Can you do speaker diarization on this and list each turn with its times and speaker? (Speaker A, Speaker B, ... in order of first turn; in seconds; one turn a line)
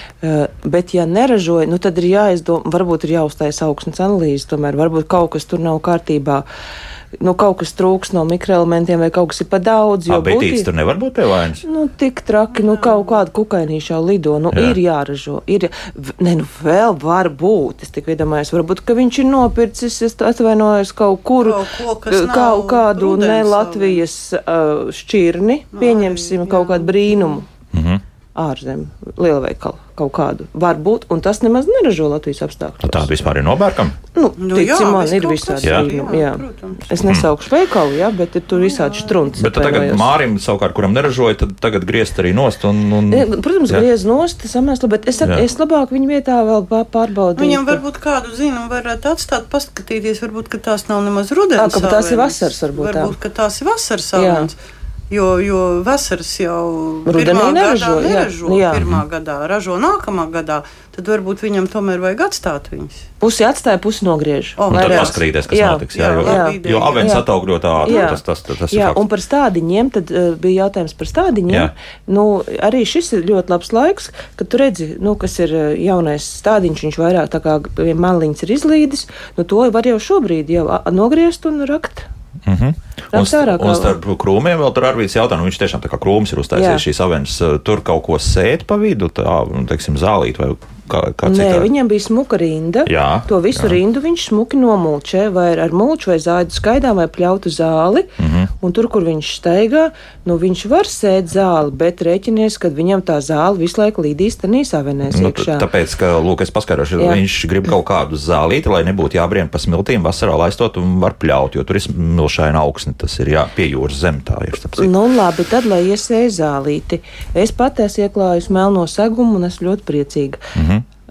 Speaker A: 0.2-6.5
Speaker A: 7.2-10.7
Speaker B: 10.1-11.6
Speaker A: 11.6-27.5
Speaker C: 12.6-13.0
Speaker C: 21.4-24.0
Speaker C: 25.8-26.9
Speaker B: 27.7-28.0
Speaker A: 28.4-33.1
Speaker B: 32.8-34.0
Speaker A: 34.1-40.1
Speaker C: 34.4-37.1
Speaker B: 35.6-35.9
Speaker C: 38.5-39.2
Speaker B: 39.4-43.9
Speaker A: 43.1-47.8
Speaker C: 47.4-54.6
Speaker A: 51.6-53.1
Speaker A: 54.1-54.5
Speaker C: 55.1-63.1
Speaker A: 57.1-58.8
Speaker B: 58.7-59.0
Speaker A: 63.2-67.2
Speaker C: 64.6-65.2
Speaker B: 64.7-69.1
Speaker C: 65.9-67.2
Speaker C: 67.8-68.1
Speaker A: 67.8-82.1
Speaker B: 82.5-91.7
Speaker A: 83.1-84.0
Speaker A: 86.5-86.8
Speaker A: 91.2-105.7
Speaker B: 92.9-93.8
Speaker B: 98.2-98.5
Speaker B: 105.1-114.9
Speaker A: 114.8-120.4
Speaker B: 120.5-120.8